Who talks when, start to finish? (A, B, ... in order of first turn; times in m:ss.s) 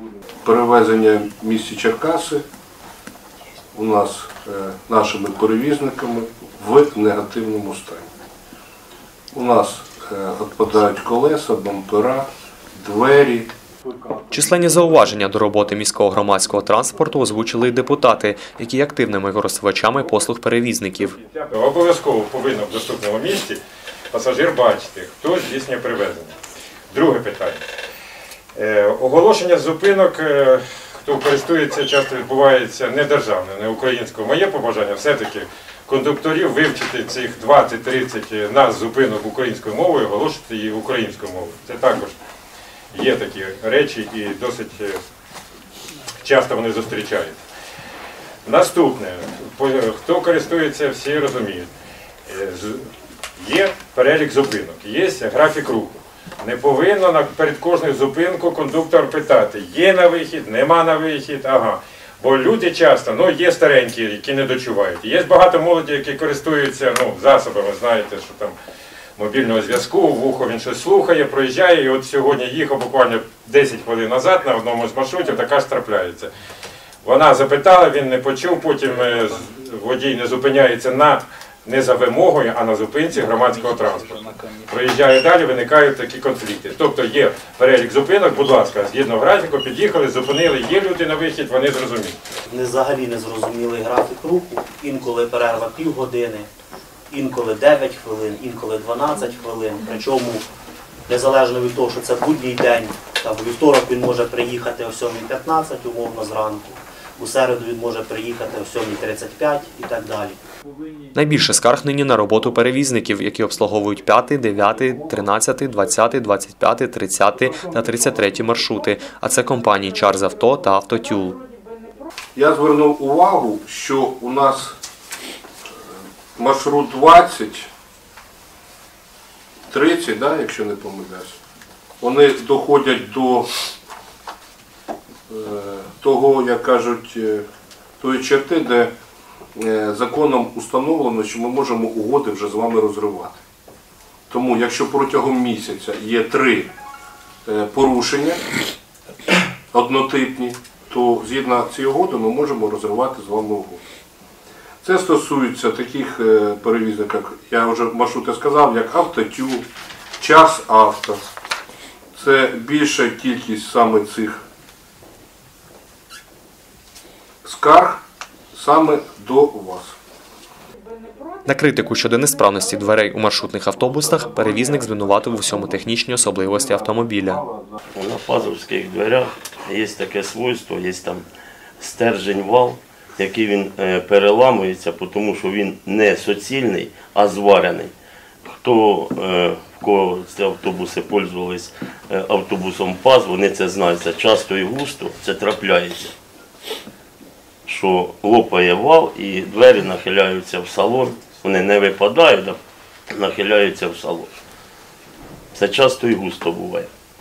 0:00.4-0:02.4 A
0:03.7-0:08.1 A
0:09.3-0:13.5 A
0:14.3-0:21.2 B
0:21.1-0:23.6 C
0:24.1-0:26.3 C
0:26.9-0:27.6 C
0:28.6-0:42.2 C
0:42.9-0:45.0 C
0:46.2-0:47.4 C
0:48.4-0:51.7 C
0:52.3-1:08.6 C
1:09.2-1:16.3 C
1:17.0-1:32.2 C
1:32.5-1:36.5 D
1:37.1-1:40.4 D
1:41.1-1:50.4 D
1:51.1-2:01.4 B
2:02.4-2:04.8 A
2:06.4-2:07.7 A
2:09.7-2:11.4 A
2:12.0-2:13.5 A
2:15.3-2:17.5 A
2:18.0-2:18.9 A
2:19.6-2:23.4 A
2:24.3-2:26.7 A
2:27.5-2:28.4 A
2:29.7-2:33.8 A
2:34.8-2:39.7 A
2:40.2-2:41.2 A
2:42.2-2:44.4 A
2:47.4-2:48.0 A
2:48.5-2:50.0 A
2:51.5-2:57.4 B
2:58.0-3:01.2 E
3:01.8-3:07.9 E
3:08.5-3:16.2 E
3:17.7-3:22.6 E
3:23.1-3:24.3 E
3:25.5-3:26.9 E